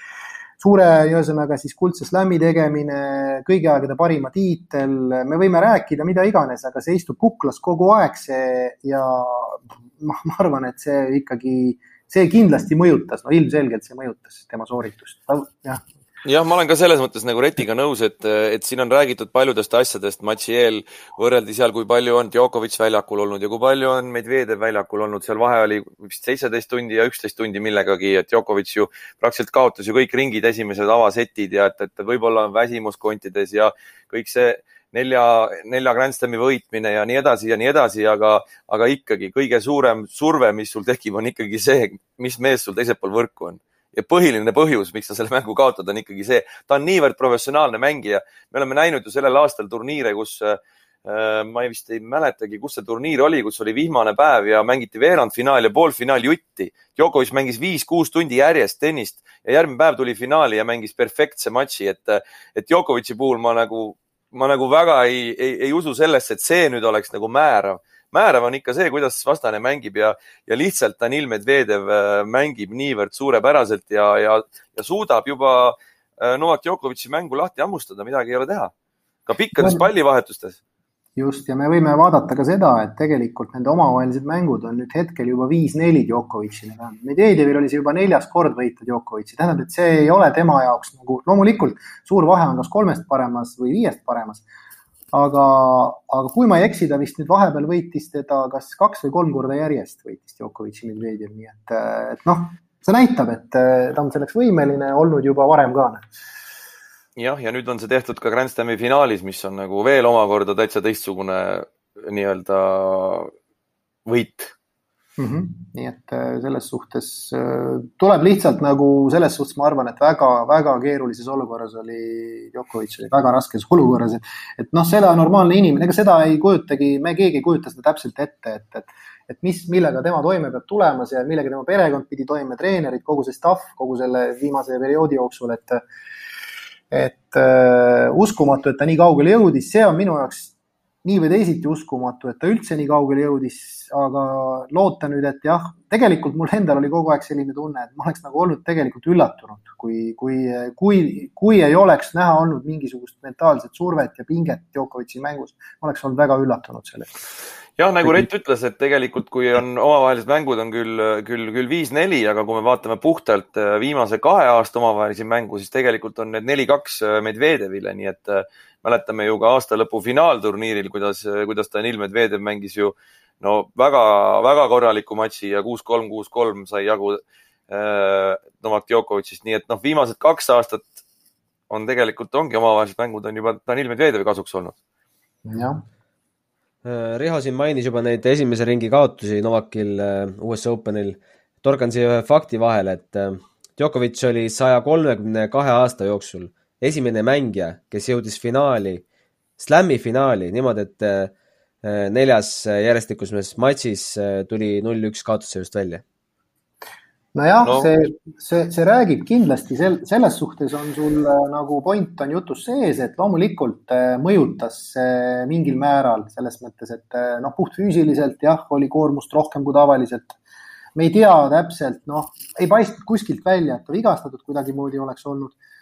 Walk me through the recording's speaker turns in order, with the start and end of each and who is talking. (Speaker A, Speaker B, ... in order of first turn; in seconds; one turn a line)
Speaker A: 0.6-15.8
Speaker B: 16.2-78.7
Speaker B: 79.3-80.6
Speaker A: 79.6-79.9
Speaker A: 81.2-94.5
Speaker A: 95.1-106.0
Speaker B: 107.2-113.3
Speaker B: 114.1-114.5
Speaker A: 115.2-135.8
Speaker A: 136.9-140.5
Speaker A: 141.0-157.1
Speaker B: 157.8-180.9
Speaker B: 181.7-184.8
Speaker A: 185.4-185.8
Speaker C: 186.8-199.0
Speaker C: 199.6-206.0
Speaker A: 207.3-220.4
Speaker B: 207.7-207.9
Speaker A: 221.0-225.6